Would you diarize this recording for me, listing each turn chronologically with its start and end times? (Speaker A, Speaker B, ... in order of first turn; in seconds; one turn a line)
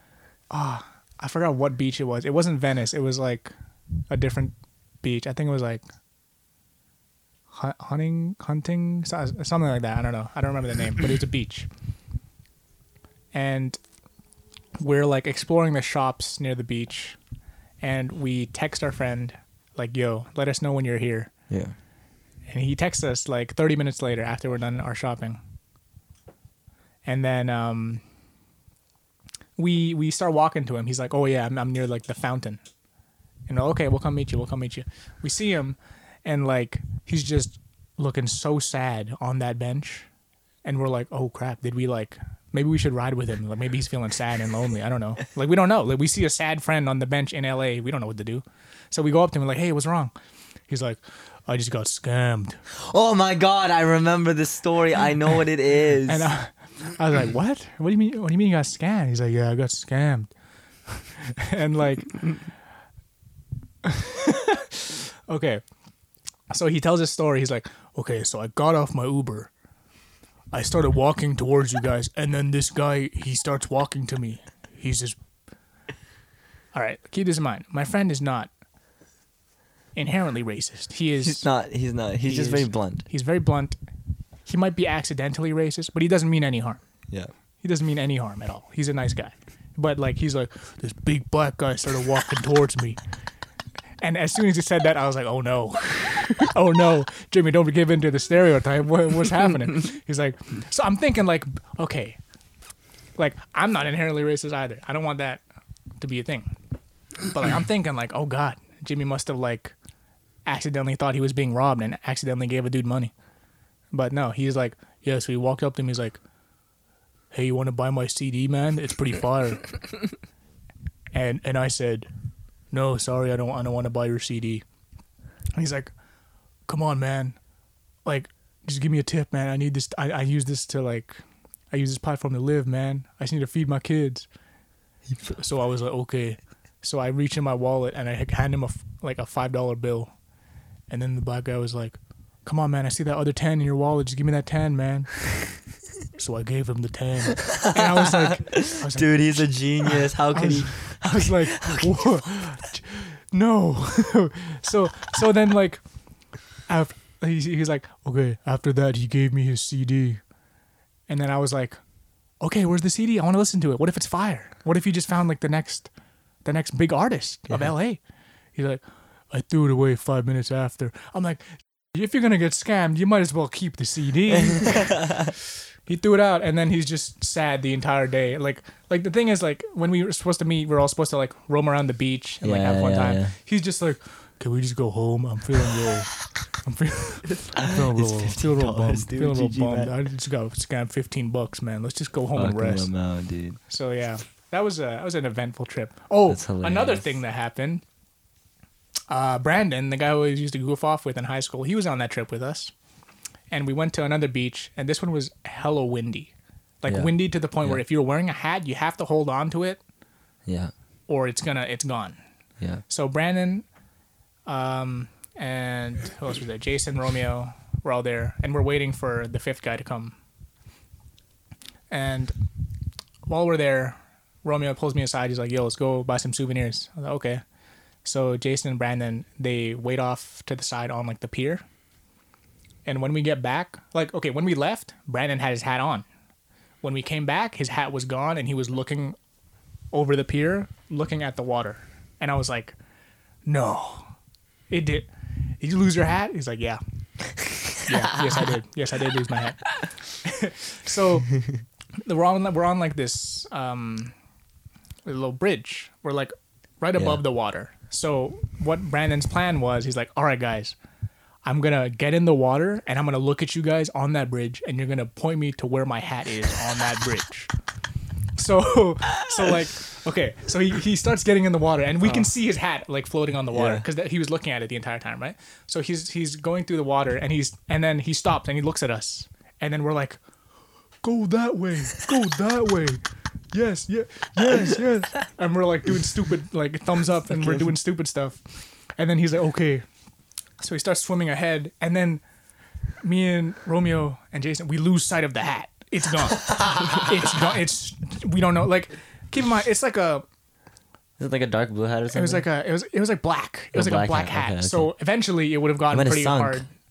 Speaker A: 0.5-3.5
Speaker A: 4.1-5.8
Speaker A: 7.5-11.7
Speaker A: 13.3-13.8
Speaker A: 14.8-17.2
Speaker A: 17.8-21.3
Speaker B: 21.5-21.7
Speaker A: 22.5-25.4
Speaker A: 27.0-28.0
Speaker A: 29.6-32.6
Speaker A: 33.5-40.1
Speaker A: 40.6-50.1
Speaker A: 50.7-52.6
Speaker B: 52.8-56.3
Speaker A: 56.1-60.3
Speaker A: 60.9-62.4
Speaker A: 63.9-65.6
Speaker A: 66.5-69.5
Speaker A: 70.5-75.2
Speaker A: 76.7-78.5
Speaker A: 79.9-81.5
Speaker B: 81.2-83.0
Speaker A: 82.2-83.8
Speaker A: 84.5-87.1
Speaker A: 87.6-93.0
Speaker A: 94.0-102.2
Speaker A: 103.2-105.4
Speaker A: 106.0-106.5
Speaker A: 107.2-109.7
Speaker A: 110.5-113.1
Speaker A: 113.9-116.2
Speaker A: 117.3-119.9
Speaker A: 121.1-122.1
Speaker A: 122.7-124.6
Speaker A: 125.5-125.9
Speaker A: 126.7-127.4
Speaker A: 128.0-134.3
Speaker A: 135.3-140.1
Speaker A: 140.9-145.6
Speaker A: 146.2-160.3
Speaker B: 147.6-152.4
Speaker A: 161.1-161.8
Speaker A: 162.4-165.9
Speaker A: 166.4-175.1
Speaker A: 175.8-193.0
Speaker B: 182.4-183.3
Speaker B: 187.6-189.9
Speaker B: 192.3-193.6
Speaker A: 193.7-197.8
Speaker B: 196.3-197.1
Speaker A: 199.1-202.7
Speaker A: 203.5-209.8
Speaker B: 206.9-207.8
Speaker B: 210.4-210.7
Speaker A: 211.1-212.2
Speaker A: 212.8-213.7
Speaker A: 214.4-220.2
Speaker A: 221.9-222.3
Speaker A: 223.2-227.4
Speaker A: 228.0-231.6
Speaker A: 232.8-236.1
Speaker A: 236.8-239.2
Speaker A: 239.9-242.8
Speaker A: 243.4-244.1
Speaker A: 244.7-245.1
Speaker A: 245.6-246.8
Speaker A: 247.4-254.1
Speaker A: 255.0-260.8
Speaker B: 256.9-257.2
Speaker A: 261.4-267.5
Speaker A: 268.4-280.2
Speaker B: 272.0-272.3
Speaker B: 273.5-273.8
Speaker A: 281.0-289.9
Speaker A: 290.6-292.2
Speaker A: 293.0-300.2
Speaker B: 301.2-302.4
Speaker A: 302.1-306.7
Speaker B: 303.7-304.9
Speaker B: 305.9-306.6